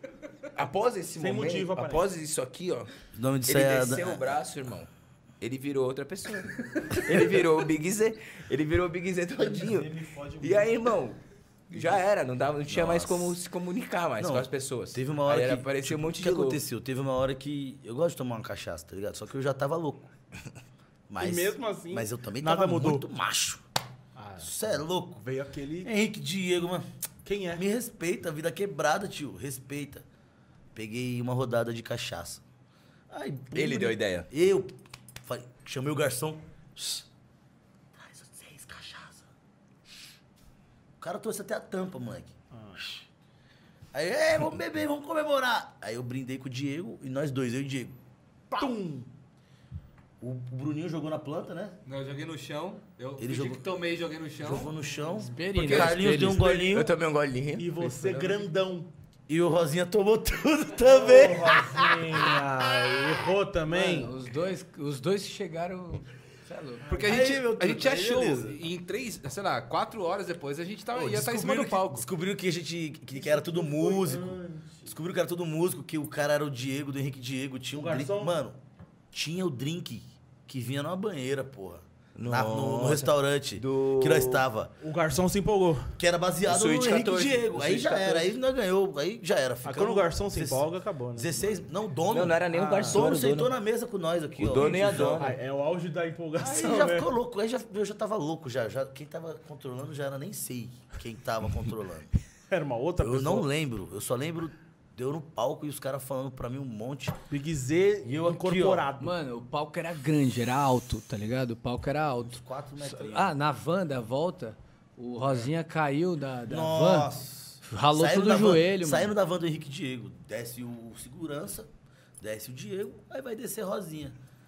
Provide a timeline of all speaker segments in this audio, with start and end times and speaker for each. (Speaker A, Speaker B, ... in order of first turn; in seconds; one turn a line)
Speaker A: 0.5-2.9
Speaker B: 1.2-2.1
Speaker C: 3.1-4.3
Speaker A: 3.5-4.9
Speaker A: 5.4-16.6
Speaker B: 9.4-10.7
Speaker C: 12.7-13.4
Speaker C: 14.2-20.1
Speaker C: 21.1-23.6
Speaker B: 21.2-23.1
Speaker B: 24.1-24.5
Speaker C: 24.4-25.2
Speaker B: 25.2-25.9
Speaker C: 25.8-26.9
Speaker B: 27.2-27.6
Speaker C: 27.5-30.0
Speaker C: 30.7-32.4
Speaker C: 33.1-37.0
Speaker A: 33.5-34.3
Speaker C: 37.9-39.2
Speaker C: 41.0-43.0
Speaker B: 42.5-42.8
Speaker C: 43.9-48.0
Speaker B: 48.5-49.1
Speaker C: 50.2-51.8
Speaker D: 51.9-54.7
Speaker C: 53.2-53.7
Speaker C: 54.4-56.9
Speaker E: 55.3-56.6
Speaker D: 55.5-56.0
Speaker A: 56.4-57.7
Speaker B: 57.5-58.9
Speaker C: 59.3-62.3
Speaker B: 60.8-64.1
Speaker E: 63.7-66.9
Speaker B: 66.8-67.6
Speaker D: 66.9-72.1
Speaker C: 66.9-68.6
Speaker C: 70.9-78.6
Speaker B: 73.1-75.0
Speaker B: 77.7-78.4
Speaker C: 79.1-84.7
Speaker A: 82.2-84.4
Speaker B: 84.8-86.0
Speaker C: 86.0-95.3
Speaker A: 86.5-88.4
Speaker B: 89.6-91.4
Speaker A: 92.1-93.5
Speaker B: 92.5-93.1
Speaker A: 94.4-95.3
Speaker B: 94.5-97.1
Speaker C: 96.4-102.1
Speaker B: 102.5-103.5
Speaker C: 103.0-107.2
Speaker B: 107.3-109.1
Speaker C: 108.0-108.8
Speaker E: 109.0-117.1
Speaker C: 112.2-113.3
Speaker C: 116.5-121.7
Speaker E: 117.6-119.1
Speaker C: 122.2-124.2